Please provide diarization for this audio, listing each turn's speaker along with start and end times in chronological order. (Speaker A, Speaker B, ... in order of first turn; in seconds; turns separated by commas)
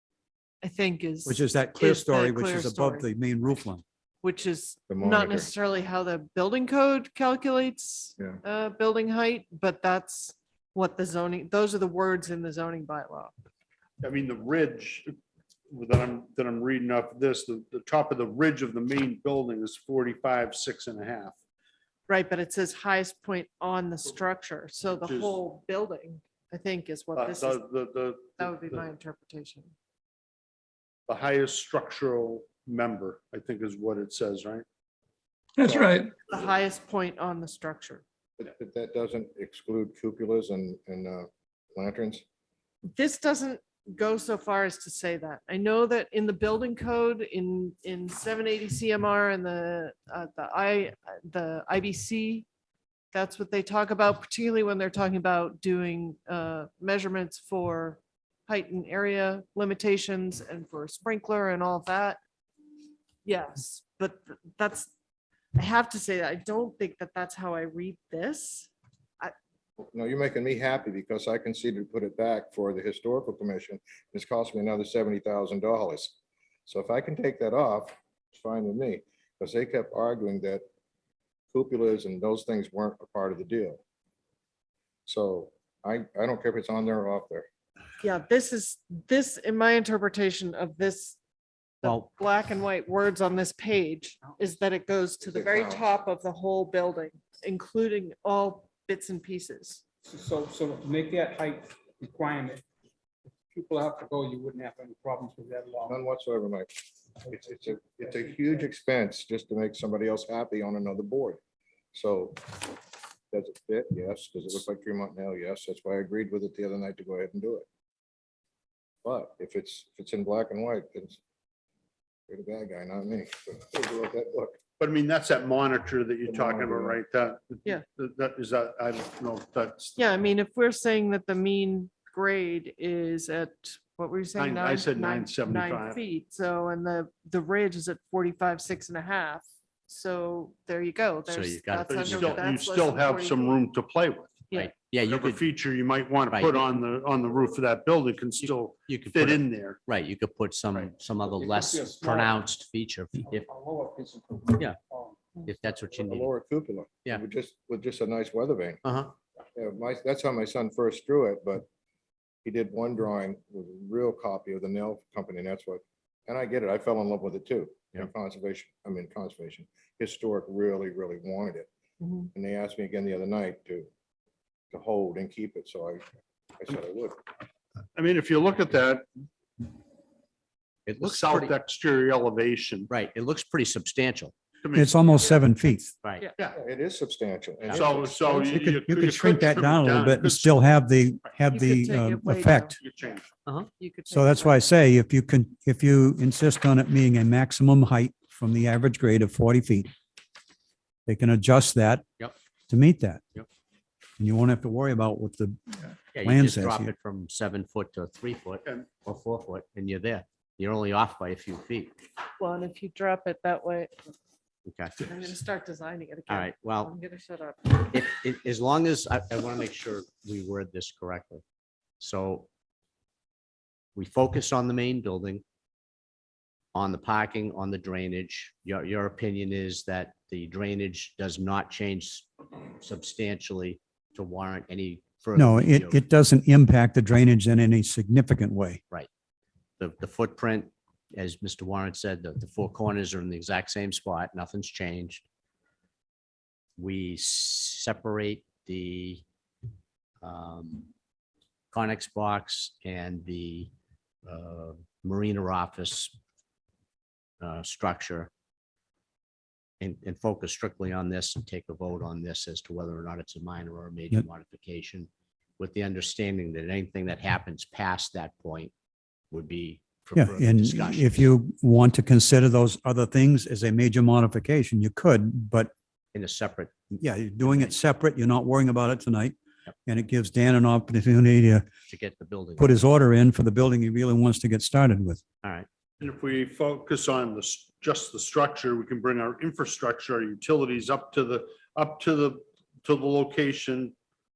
Speaker A: 0.6-3.1, Speaker B: 1.3-3.8, Speaker A: 4.2-13.3, Speaker C: 4.9-5.5, Speaker D: 14.0-15.1, Speaker D: 15.7-21.4, Speaker A: 22.1-27.6, Speaker D: 25.0-25.4, Speaker D: 27.1-28.8, Speaker A: 28.4-29.7, Speaker D: 31.1-34.6, Speaker C: 35.6-36.0, Speaker A: 35.7-38.0, Speaker C: 38.4-42.2, Speaker A: 42.9-52.5, Speaker A: 53.1-62.2, Speaker A: 63.2-64.9, Speaker A: 65.6-69.3, Speaker C: 69.8-76.1, Speaker C: 76.7-80.6, Speaker C: 81.5-83.8, Speaker C: 85.1-87.5, Speaker A: 88.0-91.2, Speaker A: 91.8-99.8, Speaker E: 91.8-92.1, Speaker C: 95.2-95.9, Speaker F: 100.0-102.7, Speaker F: 103.5-106.0, Speaker C: 105.9-111.4, Speaker C: 111.9-112.8, Speaker C: 113.3-117.7, Speaker C: 119.0-121.2, Speaker C: 122.3-124.6, Speaker D: 124.8-130.0, Speaker C: 126.3-127.0, Speaker A: 130.0-143.7, Speaker D: 134.3-136.0, Speaker E: 141.3-142.4, Speaker D: 141.9-144.5, Speaker E: 144.5-145.4, Speaker D: 145.0-149.8, Speaker E: 146.3-146.6, Speaker E: 148.4-153.5, Speaker F: 151.3-152.3, Speaker F: 153.3-155.2, Speaker E: 155.4-156.3, Speaker C: 156.1-158.8, Speaker E: 158.8-159.1, Speaker C: 159.6-161.7, Speaker C: 162.4-171.7, Speaker A: 172.0-172.3, Speaker C: 172.3-173.9, Speaker C: 174.7-176.0, Speaker C: 176.6-177.2, Speaker D: 178.0-179.2, Speaker E: 180.9-181.6, Speaker D: 181.0-182.9, Speaker E: 182.9-184.3, Speaker D: 184.6-185.4, Speaker B: 184.7-185.9, Speaker C: 186.5-188.5, Speaker E: 187.7-187.9, Speaker D: 187.7-190.6, Speaker B: 188.4-192.7, Speaker A: 191.5-192.8, Speaker D: 192.8-193.3, Speaker A: 193.8-194.7, Speaker B: 194.1-199.9, Speaker B: 201.1-202.1, Speaker B: 202.7-203.2, Speaker B: 204.2-206.9, Speaker E: 206.1-211.9, Speaker A: 212.4-214.1, Speaker E: 214.7-215.1, Speaker A: 215.0-217.9, Speaker E: 216.3-216.9, Speaker E: 217.8-221.4, Speaker E: 222.0-222.5, Speaker E: 224.0-225.4, Speaker E: 226.7-236.0, Speaker B: 235.3-238.8, Speaker E: 239.8-245.2, Speaker E: 246.8-249.2, Speaker E: 250.2-250.9, Speaker E: 251.7-253.7, Speaker E: 254.3-256.1, Speaker E: 257.4-258.3, Speaker E: 259.8-268.7, Speaker E: 269.3-271.2, Speaker B: 270.1-275.7, Speaker E: 276.1-277.7, Speaker B: 277.0-279.4, Speaker B: 279.9-281.7, Speaker E: 281.9-282.7, Speaker B: 282.6-285.2, Speaker D: 286.0-293.9